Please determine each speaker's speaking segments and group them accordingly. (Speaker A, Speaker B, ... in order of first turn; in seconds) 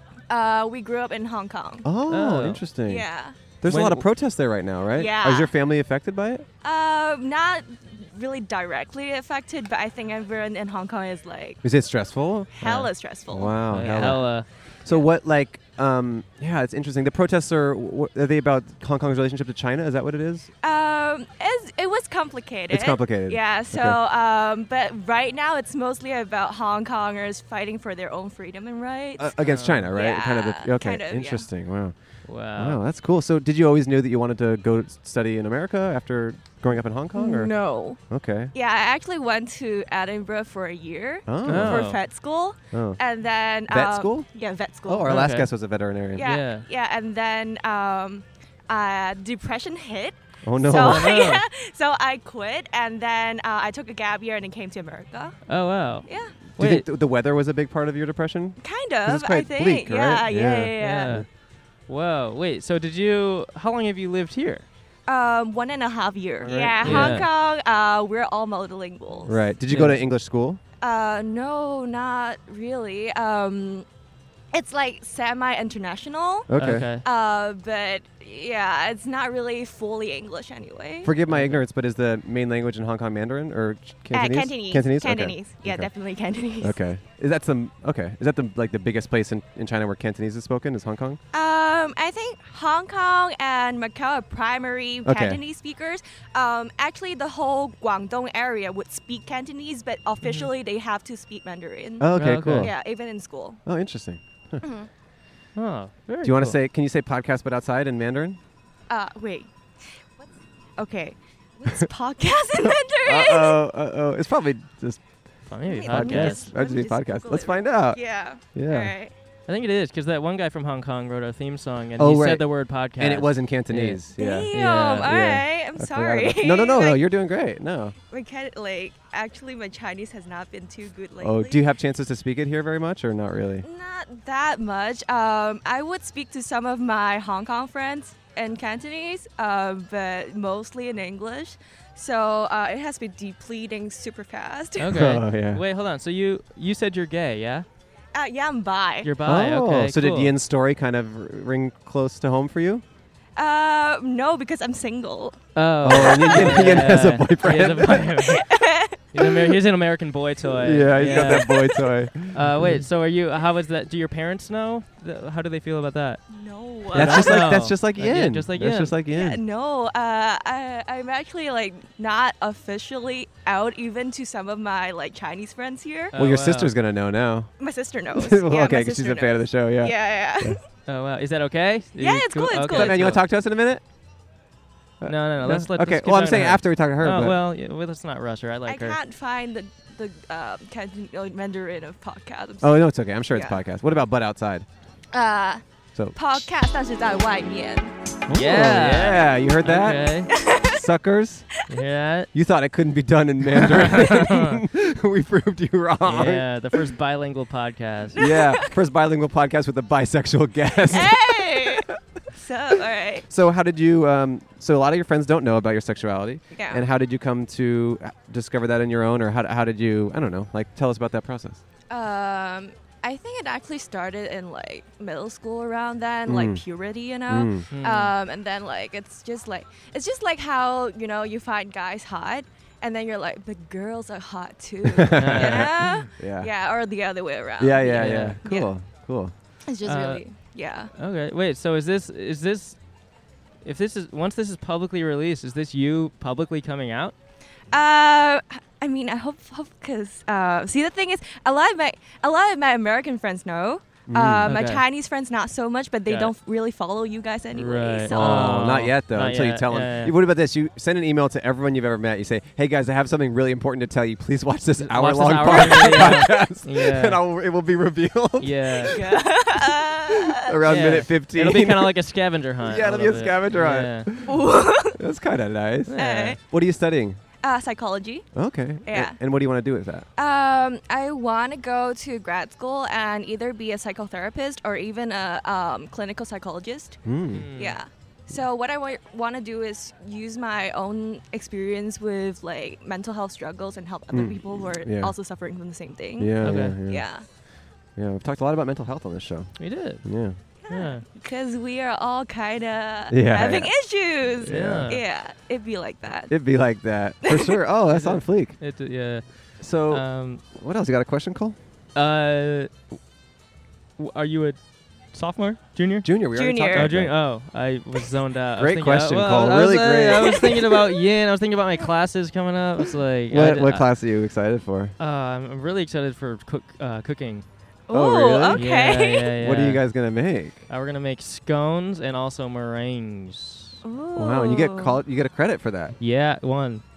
Speaker A: 0.3-1.9, 2.8-3.3, 5.0-5.5, 6.6-11.6, 12.6-14.1, 20.6-31.5, 37.1-38.0, 38.5-45.1, 46.1-55.4, 56.0-56.3, 58.6-61.2, 65.1-69.4, 70.8-73.8, 74.5-76.5, 77.0-81.1, 84.1-86.8, 91.3-103.6, 104.6-104.9, 108.9-109.5, 110.8-113.6, 115.6-119.1, 124.2-127.0, 128.1-131.6, 133.6-145.0, 148.1-149.1, 153.3-156.8, 158.2-159.2, 161.0-161.8, 166.3-167.6, 169.1-176.1, 177.6-180.6, 181.9-183.2, 188.7-193.6, 195.1-195.6, 196.1-197.9, 200.3-200.8, 208.1-208.7, 210.9-213.2, 216.5-216.8, 221.9-238.7, 239.7-240.9, 247.7-258.6, 268.9-270.5, 274.2-275.0, 275.9-276.4, 277.4-278.3, 278.8-279.2, 280.1-297.2, 300.6-306.3, 307.2-307.6, 316.3-316.9, 327.9-329.3, 333.8-335.0
Speaker B: 1.8-3.0, 3.6-6.5, 11.6-20.5, 22.7-24.0, 29.2-38.5, 41.3-41.9, 42.7-43.0, 43.7-44.3, 44.9-46.3, 50.4-51.2, 56.5-61.2, 66.4-67.2, 69.2-70.6, 76.5-76.9, 81.0-85.9, 86.6-91.2, 95.0-95.4, 102.0-102.7, 103.7-104.6, 106.2-108.4, 113.0-118.9, 122.0-124.5, 125.0-127.9, 131.2-133.6, 144.9-145.6, 149.2-152.8, 155.8-158.1, 160.6-162.8, 166.9-169.4, 176.1-177.5, 178.1-180.6, 182.7-183.8, 185.0-187.4, 192.6-194.7, 195.9-196.5, 198.3-200.1, 200.7-201.5, 202.3-206.5, 208.2-211.8, 213.3-221.6, 226.3-226.6, 227.3-227.7, 234.8-236.5, 237.6-239.3, 254.1-254.5, 258.1-269.2, 270.1-271.9, 272.6-274.4, 274.9-277.2, 278.3-280.1, 287.0-287.5, 294.1-295.1, 296.2-297.4, 297.9-300.4, 303.1-303.7, 304.4-304.9, 306.3-308.6, 309.6-311.6, 316.0-317.2, 318.6-320.4, 323.3-324.9, 327.9-328.7, 329.4-330.6, 334.1-335.9
Speaker C: 2.1-2.6, 3.6-4.0, 13.7-14.5, 29.4-29.9, 32.2-32.8, 41.4-42.0, 45.0-45.5, 46.2-46.7, 50.7-51.4, 55.5-56.9, 60.8-61.2, 61.9-64.7, 66.8-67.3, 69.7-70.0, 76.5-77.0, 81.3-81.6, 100.2-100.5, 102.1-102.7, 105.5-106.6, 115.5-116.5, 119.5-125.2, 144.8-147.7, 149.0-150.3, 155.5-158.5, 159.1-161.5, 162.3-166.2, 166.9-168.9, 176.1-176.7, 180.9-183.2, 185.0-189.0, 198.3-200.3, 201.7-202.3, 203.7-204.6, 206.0-208.2, 227.7-228.1, 235.2-235.7, 237.9-238.4, 239.8-240.4, 240.9-242.8, 243.6-247.1, 254.5-254.8, 256.1-256.3, 257.5-260.1, 264.8-267.2, 268.4-268.9, 270.6-274.1, 275.9-276.4, 287.3-287.8, 296.4-296.8, 299.6-301.1, 304.4-305.0, 307.9-310.4, 311.9-312.7, 314.0-316.1, 316.7-323.9, 325.0-327.4, 328.5-329.8, 330.7-333.8, 336.0-336.8